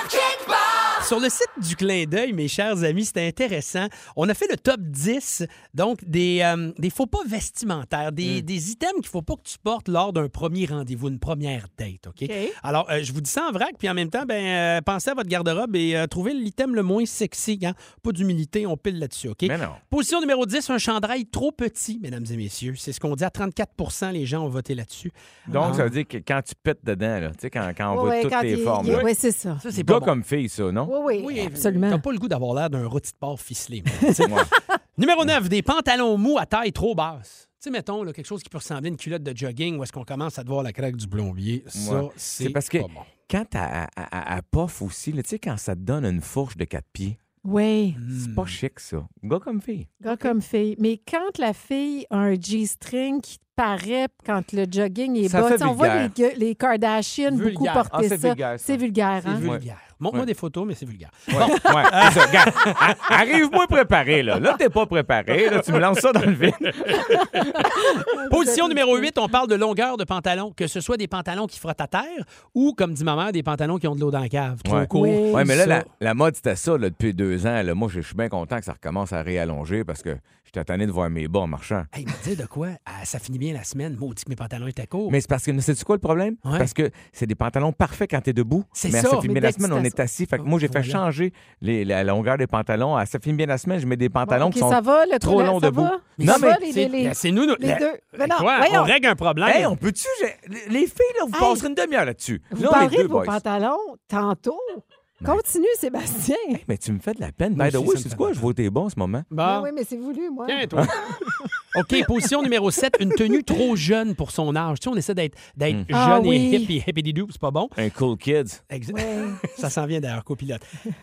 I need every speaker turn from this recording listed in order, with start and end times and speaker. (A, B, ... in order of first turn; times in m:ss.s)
0:01.0-0:25.9 A
0:12.2-0:12.6 B
0:19.4-0:19.8 C
0:25.5-0:29.1 C
0:25.5-0:25.8 B
0:27.9-0:29.6 B
0:29.6-0:30.1 A
0:29.7-0:30.9 C
0:30.9-0:32.0 B
0:31.1-0:43.1 A
0:34.2-0:34.5 C
0:41.7-0:47.2 C
0:47.4-0:48.0 B
0:48.0-0:48.6 A
0:48.1-0:49.9 C
0:50.0-0:59.4 B
0:50.1-0:50.3 A
0:55.2-0:56.1 C
0:57.3-0:57.9 A
0:57.9-0:58.8 C
0:59.2-1:03.2 A
0:59.4-1:00.3 C
1:01.3-1:07.5 C
1:01.4-1:01.9 B
1:07.1-1:09.1 B
1:08.1-1:15.9 A
1:14.6-1:21.9 C
1:14.9-1:15.5 B
1:21.9-1:25.2 A
1:25.1-1:36.6 C
1:26.4-1:26.7 A
1:28.8-1:29.4 A
1:29.2-1:30.0 B
1:30.4-1:31.0 A
1:34.3-1:38.9 B
1:36.2-1:39.7 A
1:39.4-1:43.4 C
1:41.3-1:41.6 B
1:42.5-1:46.6 B
1:46.5-1:49.3 C
1:47.6-1:48.5 A
1:49.3-1:49.7 A
1:49.4-1:51.5 B
1:50.5-1:51.2 A
1:51.7-1:57.8 A
1:55.9-1:56.7 B
1:57.8-1:58.6 C
1:58.7-2:00.6 A
1:58.9-1:59.5 B